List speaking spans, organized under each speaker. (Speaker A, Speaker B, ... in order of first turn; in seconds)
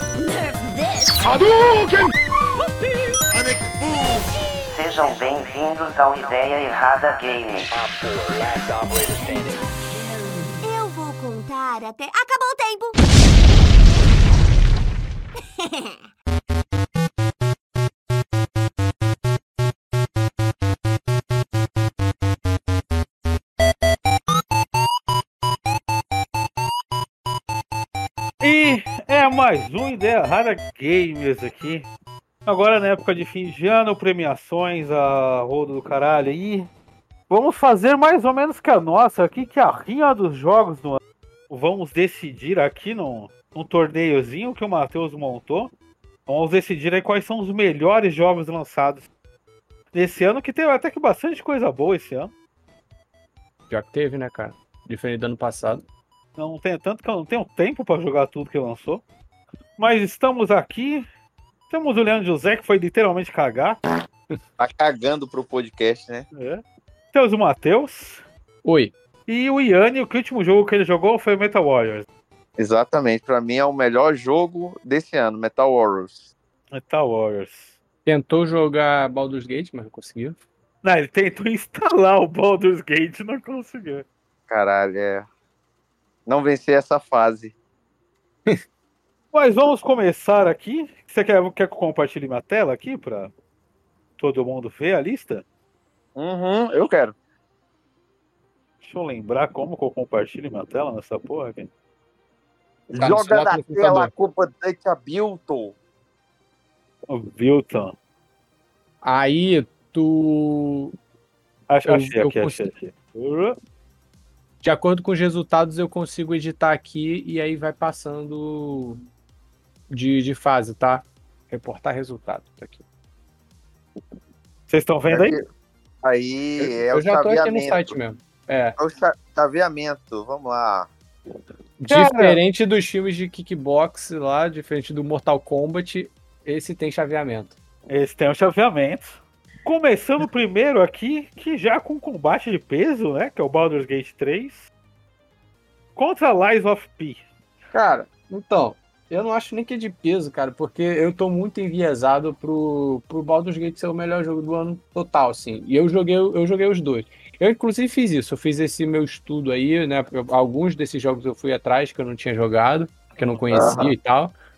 Speaker A: 0.3-1.1, 10.6-13.0
Speaker B: 1.2-2.1, 7.7-9.6
Speaker C: 4.7-7.7
Speaker D: 28.4-31.9, 32.5-36.7, 37.3-41.0, 41.5-45.7, 46.3-49.0, 49.9-52.3, 56.4-59.0, 59.8-61.0, 61.7-63.8, 66.3-66.6, 67.1-68.2, 69.3-72.0, 76.7-77.8, 80.8-84.0, 89.3-93.3, 94.2-95.4, 98.8-101.7, 107.1-107.9, 111.7-113.5, 124.7-125.4, 131.9-132.4, 137.9-144.7, 145.9-147.3
Speaker E: 53.7-55.8, 68.6-68.9, 78.0-80.4, 102.9-104.1, 109.0-110.9, 111.9-112.7, 114.6-119.0, 119.9-122.8, 126.6-128.8, 131.8-137.5, 147.7-164.3
Speaker F: 64.6-66.2, 72.6-76.3, 84.5-85.3, 86.2-87.5, 96.2-97.1, 102.9-105.7, 125.1-125.4, 126.0-127.9, 128.8-130.9, 163.5-163.9